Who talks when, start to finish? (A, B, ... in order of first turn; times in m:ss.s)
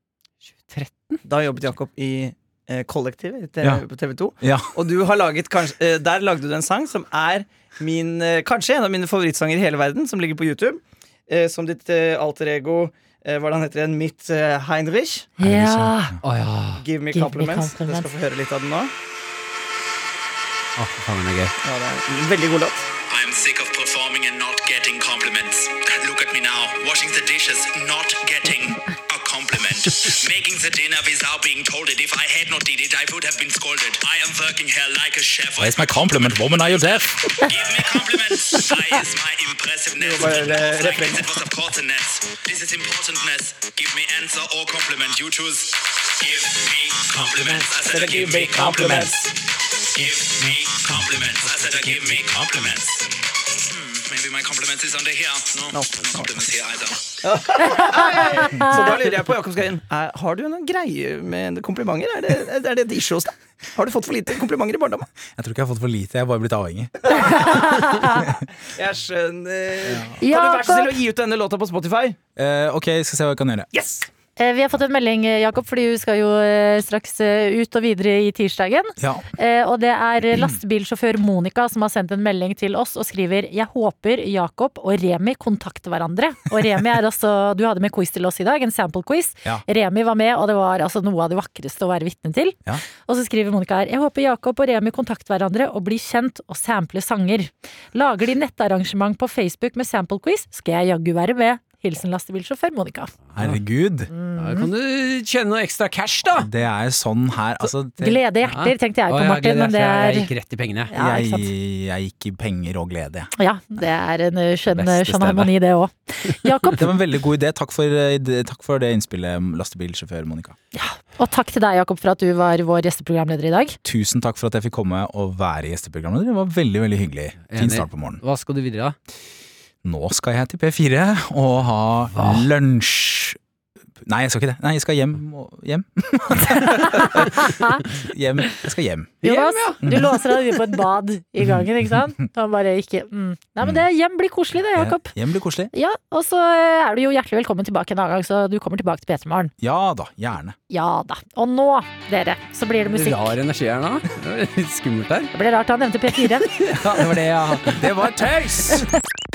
0:00.6-0:01.2 A
0:01.2-0:15.3 B
0:04.4-0:04.7 C
0:15.4-0:16.1 D
0:15.4-0:16.2 C
0:16.2-0:16.8 A
0:16.8-0:18.9 B
0:17.1-0:18.1 D
0:20.8-0:21.6 A
0:21.6-0:22.8 B
0:23.1-0:57.2 E
0:35.6-0:37.1 C
0:40.0-0:41.3 B
0:47.4-0:49.2 B
0:55.7-0:56.3 B
0:57.2-1:05.1 B
1:05.3-1:07.2 C
1:07.2-1:07.9 B
1:07.3-1:08.2 D
1:08.7-1:12.2 B
1:10.2-1:10.9 D
1:12.4-1:13.7 C
1:13.7-1:14.1 B
1:14.4-1:43.1 D
1:19.0-1:19.2 C
1:43.3-1:43.6 A
1:43.4-1:44.1 C
1:44.1-1:44.7 D
1:44.4-1:46.5 A
1:46.4-1:48.2 C
1:48.0-1:50.3 D
1:48.5-1:50.9 A
1:50.9-1:51.5 D
1:50.9-1:53.3 C
1:53.4-1:56.8 D
1:54.8-1:55.4 C
1:56.8-2:00.6 C
2:00.7-2:03.8 D
2:03.8-2:08.2 C
2:07.5-2:09.0 A
2:09.8-2:13.4 C
2:12.1-2:12.5 A
2:14.0-2:19.2 C
2:16.6-2:17.8 D
2:19.2-2:19.8 A
2:19.2-2:25.1 D
2:19.8-2:20.2 C
2:24.7-2:25.7 C
2:25.7-2:29.5 D
2:29.6-2:30.6 C
2:30.7-2:33.3 D
2:32.9-2:35.3 A
2:35.3-2:36.5 D
2:36.4-2:38.0 A
2:37.7-2:38.8 C